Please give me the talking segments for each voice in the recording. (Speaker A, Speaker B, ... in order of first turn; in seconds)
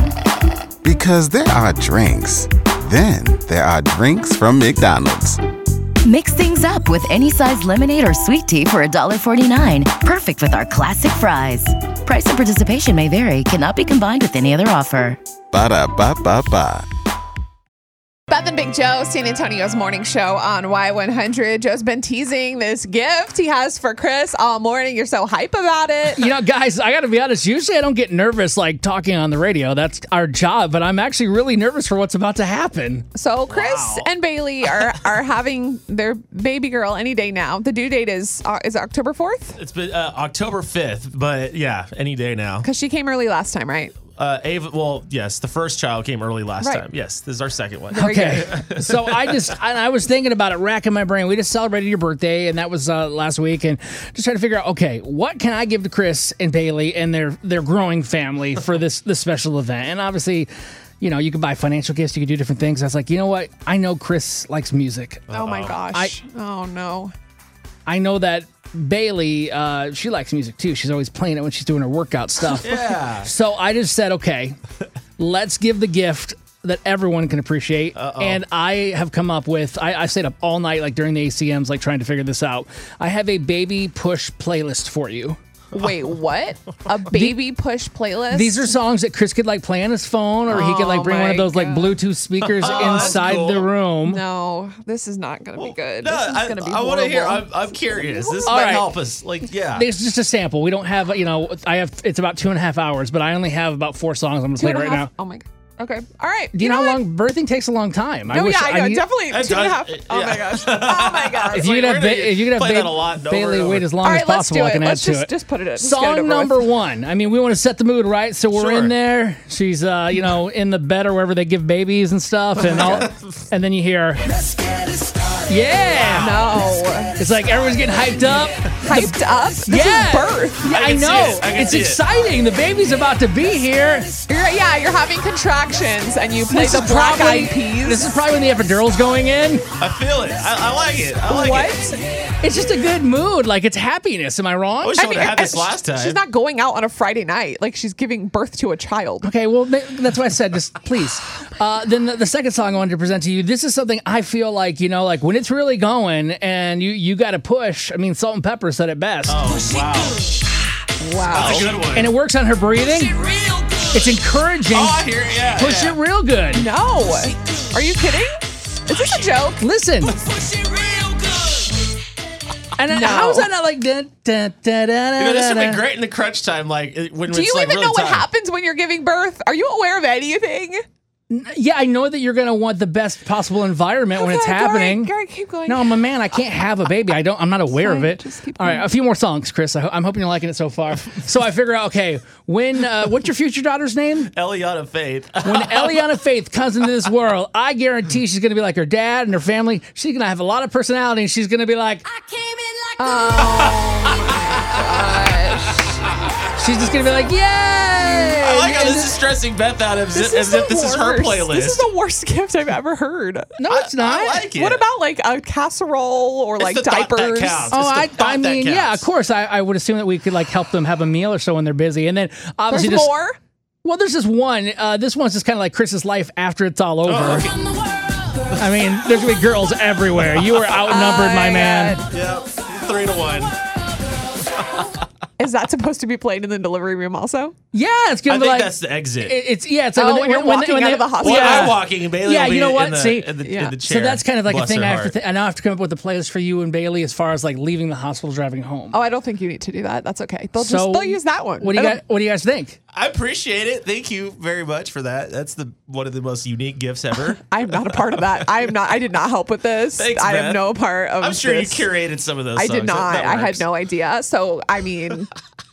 Speaker A: 0.8-5.4, 15.5-16.8
Speaker B: 6.0-15.2
Speaker C: 18.3-26.3, 33.1-39.6, 42.6-44.0, 46.6-46.9, 47.9-48.5, 65.3-67.1, 85.7-88.7, 90.5-92.0, 92.6-93.4, 94.0-98.9, 104.6-107.0, 108.3-111.7, 114.0-116.7, 122.7-122.9, 126.1-127.2, 128.8-130.7, 134.3-138.2, 141.3-142.0, 144.9-149.3, 161.0-161.7, 166.5-169.7, 172.9-173.5, 177.3-180.8, 184.1-185.9, 187.7-188.9, 203.0-205.9, 210.1-213.5, 214.4-217.8, 222.7-223.4, 230.9-232.0, 235.4-237.5, 239.9-241.8, 243.4-243.8, 248.9-252.0, 257.5-261.9, 262.5-265.3
Speaker D: 26.1-33.1, 48.0-60.5, 61.0-65.2, 67.8-72.7, 73.2-74.6, 75.2-85.4, 87.1-87.4, 88.3-94.2, 98.5-98.9, 99.7-105.1, 106.5-109.0, 111.5-124.4, 125.5-126.4, 127.2-134.1, 136.5-139.6, 142.4-144.9, 149.2-159.4, 161.9-163.2, 163.9-166.7, 169.6-170.2, 172.8-175.8, 181.3-185.1, 185.7-194.3, 195.4-202.0, 206.6-209.2, 213.6-214.4, 217.7-223.1, 223.8-227.5, 228.6-232.0, 237.7-243.3, 243.8-249.0, 250.6-252.8
Speaker E: 33.5-34.1, 39.5-42.7, 44.0-49.3, 65.3-65.8, 72.6-73.3, 77.9-78.4, 92.4-93.7, 95.5-99.9, 109.3-114.0, 118.5-118.9, 122.7-123.3, 126.0-126.7, 130.7-132.0, 139.8-141.7, 144.8-146.2, 159.3-160.3, 161.3-162.1, 163.1-164.0, 164.7-166.0, 170.2-171.7, 175.2-178.3, 194.3-196.1, 203.4-204.6, 208.4-211.9, 213.7-214.8, 216.6-219.1, 227.0-227.7, 232.1-233.6, 234.6-234.9, 238.3-239.3, 241.2-245.1, 252.9-258.2, 259.9-263.6